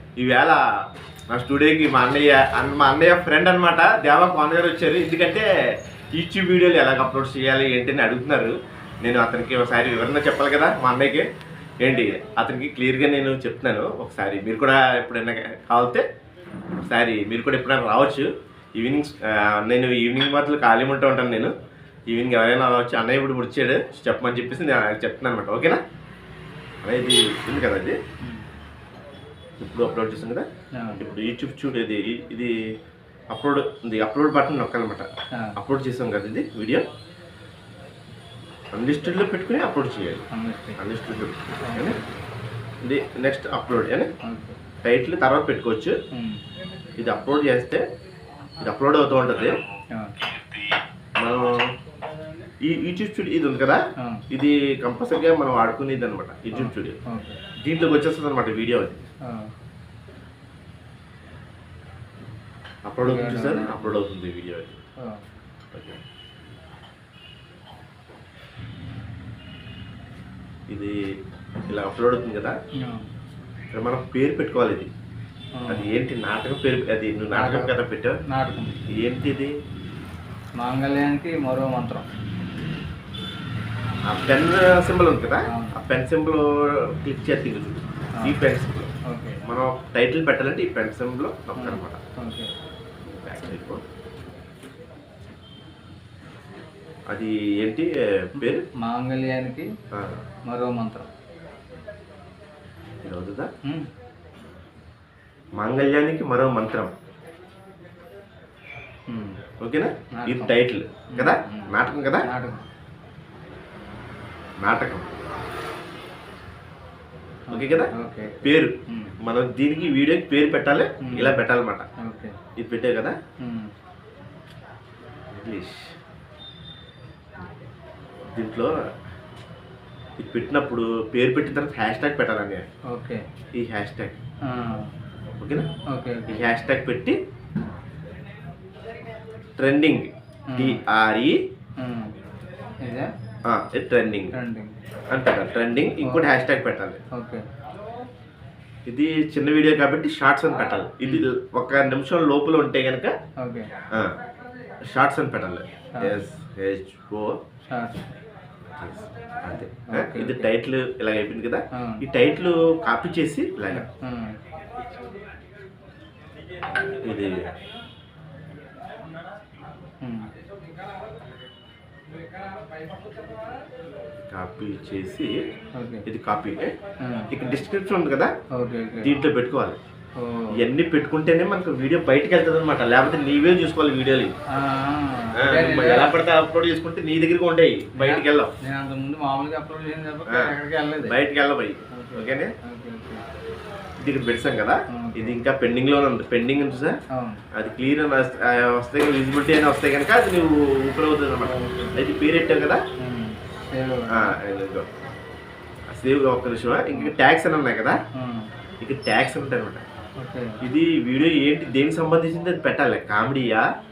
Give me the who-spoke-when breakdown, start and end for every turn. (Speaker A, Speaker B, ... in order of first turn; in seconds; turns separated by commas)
Speaker A: 0.2-0.6, Speaker A: 1.3-5.5, Speaker A: 6.1-11.2, Speaker A: 11.8-16.0, Speaker A: 16.9-21.5, Speaker A: 22.1-25.8, Speaker A: 26.8-28.0, Speaker A: 29.6-30.5, Speaker A: 31.0-32.5, Speaker A: 33.3-35.0, Speaker A: 35.6-36.9, Speaker A: 38.7-40.2, Speaker B: 40.3-40.8, Speaker A: 40.8-42.0, Speaker B: 41.6-42.1, Speaker A: 42.8-44.1, Speaker B: 44.2-44.6, Speaker A: 44.8-46.0, Speaker B: 46.1-46.4, Speaker A: 47.0-47.8, Speaker A: 48.6-49.6, Speaker B: 49.9-50.2, Speaker A: 51.2-51.7, Speaker A: 52.6-53.8, Speaker A: 54.3-57.0, Speaker B: 56.5-57.4, Speaker A: 57.6-59.0, Speaker B: 59.2-59.5, Speaker A: 62.9-64.8, Speaker B: 63.0-63.9, Speaker B: 65.0-65.2, Speaker A: 65.7-66.0, Speaker A: 70.7-70.9, Speaker A: 71.7-72.5, Speaker B: 72.8-73.0, Speaker A: 73.7-74.9, Speaker B: 75.5-75.9, Speaker A: 75.7-78.2, Speaker B: 77.3-77.7, Speaker B: 78.3-78.8, Speaker A: 79.0-79.5, Speaker B: 80.6-82.1, Speaker A: 84.1-88.9, Speaker B: 85.5-85.8, Speaker B: 89.1-89.4, Speaker A: 89.4-92.0, Speaker B: 91.6-92.5, Speaker A: 93.0-93.8, Speaker A: 97.1-98.6, Speaker B: 98.8-99.7, Speaker A: 99.9-100.2, Speaker B: 100.5-101.1, Speaker A: 103.0-103.5, Speaker A: 105.6-106.9, Speaker B: 109.1-109.4, Speaker A: 109.6-112.3, Speaker B: 110.1-110.5, Speaker B: 111.1-111.7, Speaker B: 112.2-112.6, Speaker A: 114.6-115.1, Speaker B: 117.5-119.1, Speaker A: 117.5-117.9, Speaker A: 118.4-121.8, Speaker B: 121.0-121.4, Speaker B: 122.0-122.3, Speaker A: 122.6-123.2, Speaker B: 123.4-123.7, Speaker A: 125.3-125.9, Speaker A: 128.3-128.7, Speaker A: 130.2-132.6, Speaker B: 132.9-133.2, Speaker A: 133.6-134.2, Speaker B: 134.4-134.9, Speaker A: 135.4-135.7, Speaker B: 135.9-136.6, Speaker A: 136.3-137.2, Speaker A: 139.6-141.4, Speaker B: 140.5-140.8, Speaker B: 141.8-142.1, Speaker B: 142.8-143.1, Speaker A: 143.4-144.3, Speaker B: 144.3-144.7, Speaker A: 145.1-147.0, Speaker B: 146.0-146.3, Speaker B: 147.1-147.4, Speaker A: 148.8-153.1, Speaker B: 153.4-153.7, Speaker A: 154.9-157.4, Speaker B: 157.7-158.1, Speaker A: 158.7-163.8, Speaker B: 159.8-160.5, Speaker B: 161.8-162.0, Speaker B: 163.7-164.4, Speaker A: 166.7-167.4, Speaker B: 170.0-170.3, Speaker A: 174.3-175.4, Speaker B: 175.8-176.0, Speaker A: 176.1-176.7, Speaker B: 177.0-177.3, Speaker A: 177.3-178.3, Speaker B: 178.5-179.1, Speaker A: 179.0-179.8, Speaker B: 180.2-180.6, Speaker A: 180.5-184.3, Speaker B: 184.5-186.2, Speaker A: 185.4-188.5, Speaker B: 188.0-191.2, Speaker A: 191.1-192.5, Speaker B: 191.9-193.2, Speaker A: 194.0-197.0, Speaker B: 194.9-195.4, Speaker B: 197.1-197.4, Speaker A: 197.5-202.8, Speaker B: 201.4-202.0, Speaker B: 203.0-204.4, Speaker A: 204.1-204.9, Speaker A: 205.9-208.0, Speaker B: 208.2-208.5, Speaker A: 208.8-209.8, Speaker B: 210.2-210.6, Speaker A: 210.6-213.7